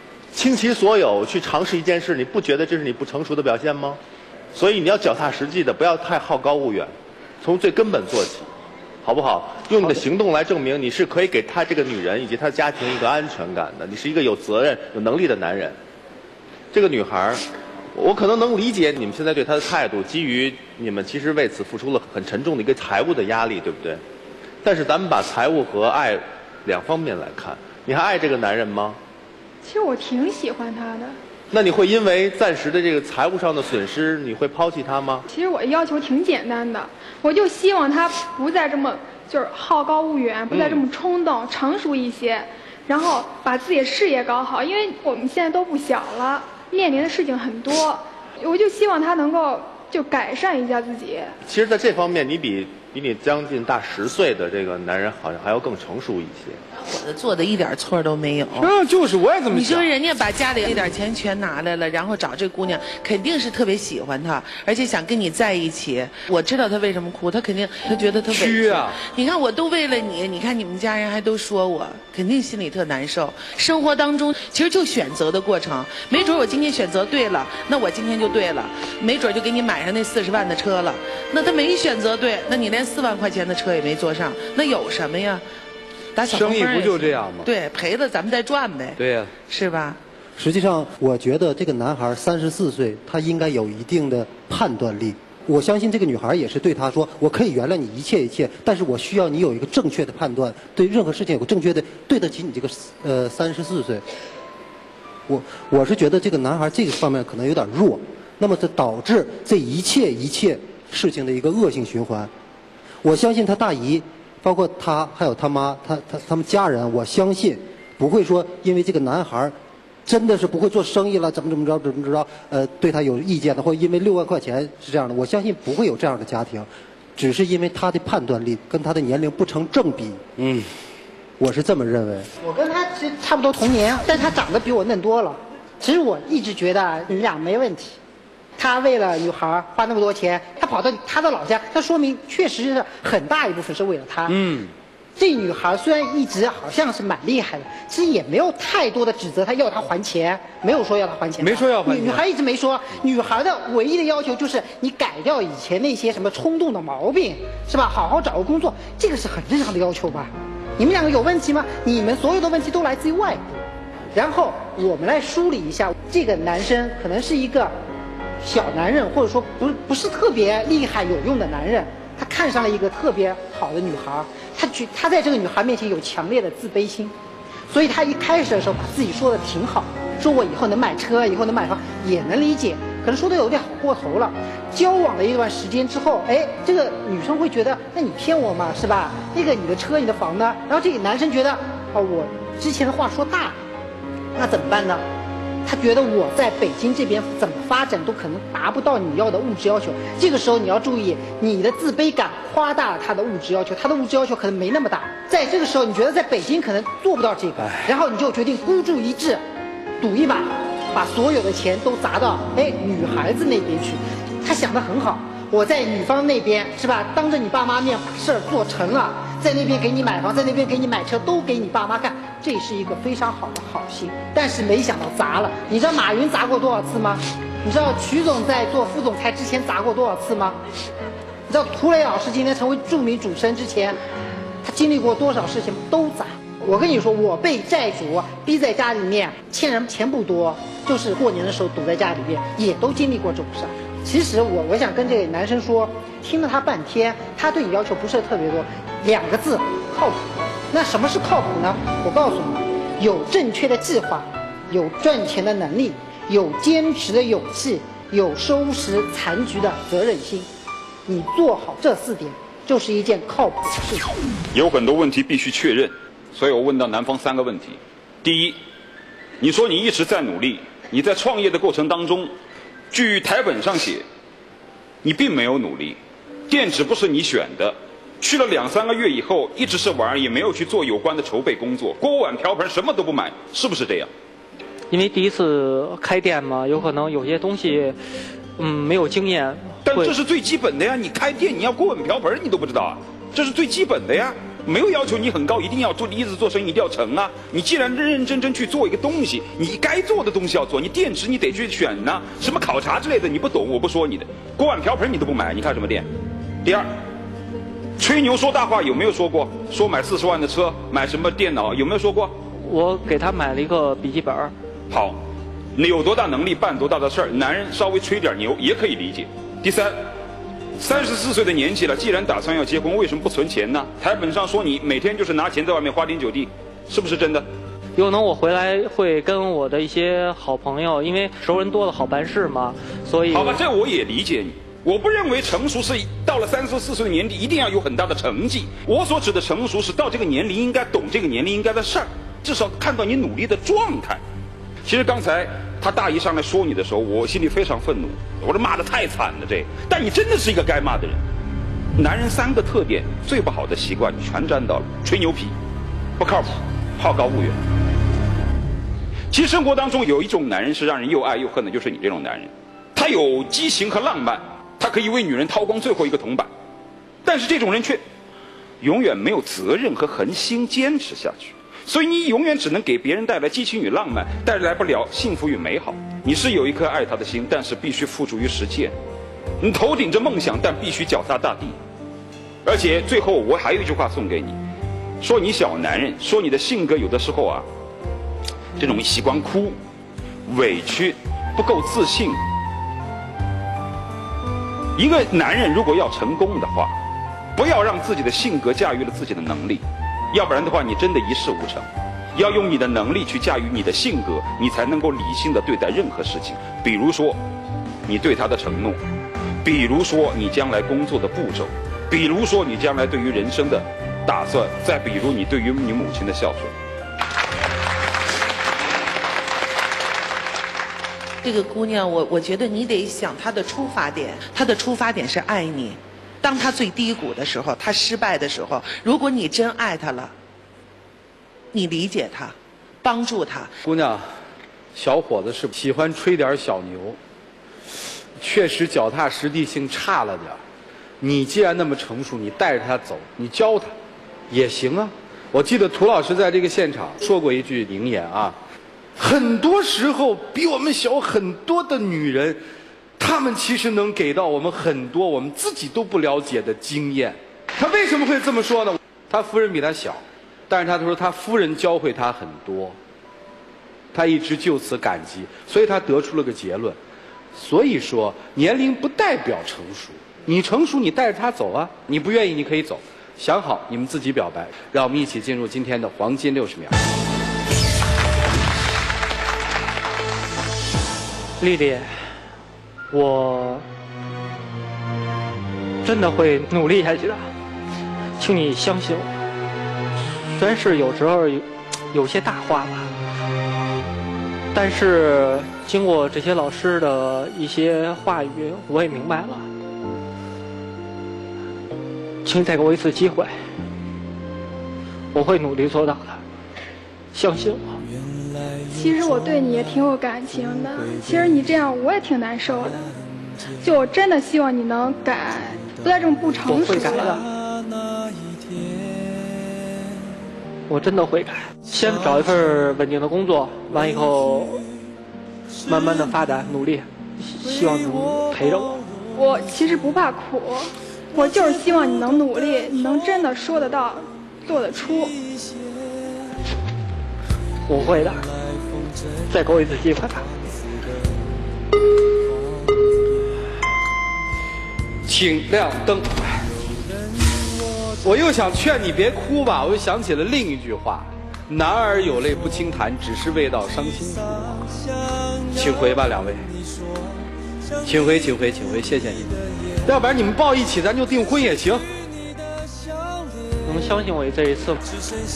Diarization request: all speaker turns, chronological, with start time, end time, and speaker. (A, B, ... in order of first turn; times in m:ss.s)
0:00.3-0:04.0 A
0:04.5-0:08.5 A
0:09.0-0:15.8 A
0:16.7-0:17.4 A
0:17.9-0:24.0 A
0:24.6-0:29.0 A
0:29.6-0:31.2 B
0:31.5-0:35.3 A
0:35.3-0:51.4 B
0:40.5-0:40.8 A
0:51.5-0:56.6 A
0:56.8-0:58.7 C
0:58.6-0:59.9 D
0:59.5-1:25.4 C
1:08.3-1:09.0 D
1:26.2-1:30.0 C
1:26.3-1:27.5 D
1:29.0-1:29.3 D
1:30.4-1:44.0 E
1:45.3-1:52.3 E
1:53.0-2:10.2 E
2:10.4-2:10.7 D
2:11.4-2:12.3 E
2:12.4-2:18.0 F
2:18.6-2:24.4 F
2:24.3-2:24.7 D
2:25.2-2:47.8 F
2:31.4-2:32.2 D
2:48.4-2:57.1 F
2:57.7-3:13.6 F
3:14.4-3:15.0 F
3:15.6-3:29.4 F
3:27.6-3:27.9 D
3:30.0-3:50.6 F
3:51.5-3:54.0 F
3:54.6-4:20.5 F
4:21.1-4:24.1 F
4:24.5-4:28.6 G
4:29.4-4:32.3 G
4:32.9-4:34.0 G
4:35.0-4:36.0 G
4:36.5-4:44.1 G
4:44.9-4:48.0 H
4:48.6-4:50.2 H
4:49.8-5:06.1 G
5:08.0-5:12.4 G
5:12.5-5:14.5 H
5:14.9-5:15.2 G
5:15.8-5:20.0 G
5:20.8-5:27.5 G
5:28.0-5:33.6 H
5:33.3-5:44.2 G
5:44.8-5:51.2 G
5:52.0-5:55.5 G
5:56.2-5:57.6 G
5:59.3-6:06.5 G
6:07.2-6:08.0 G
6:08.8-6:19.0 G
6:19.6-6:21.8 G
6:22.6-6:24.6 G
6:25.2-6:27.7 G
6:28.8-6:29.8 G
6:30.5-6:32.4 G
6:35.0-6:36.9 G
6:37.6-6:47.4 G
6:48.1-6:49.0 G
6:49.6-6:56.7 G
7:01.4-7:10.3 C
7:11.7-7:13.7 C
7:13.8-7:14.3 D
7:15.0-7:17.2 D
7:18.4-7:20.6 D
7:21.2-7:23.9 D
7:24.5-7:28.6 D
7:29.2-7:32.6 D
7:33.2-7:43.0 D
7:44.1-7:47.0 D
7:47.6-7:57.0 D
8:01.6-8:02.3 H
8:03.1-8:03.8 H
8:06.0-8:07.5 H
8:08.4-8:09.3 H
8:10.5-8:13.1 H
8:14.7-8:19.7 H
8:22.4-8:23.6 H
8:25.3-8:26.4 H
8:27.3-8:28.0 H
8:28.9-8:33.2 B
8:33.8-8:37.4 B
8:36.7-8:37.4 H
8:40.9-8:44.8 H
8:45.9-8:49.0 H
8:49.4-8:55.4 B
8:57.9-8:58.4 H
8:59.5-9:00.5 H
9:05.3-9:06.7 D
9:08.2-9:14.9 D
9:15.7-9:16.7 D
9:18.0-9:19.5 D
9:20.0-9:22.0 D
9:23.8-9:25.0 H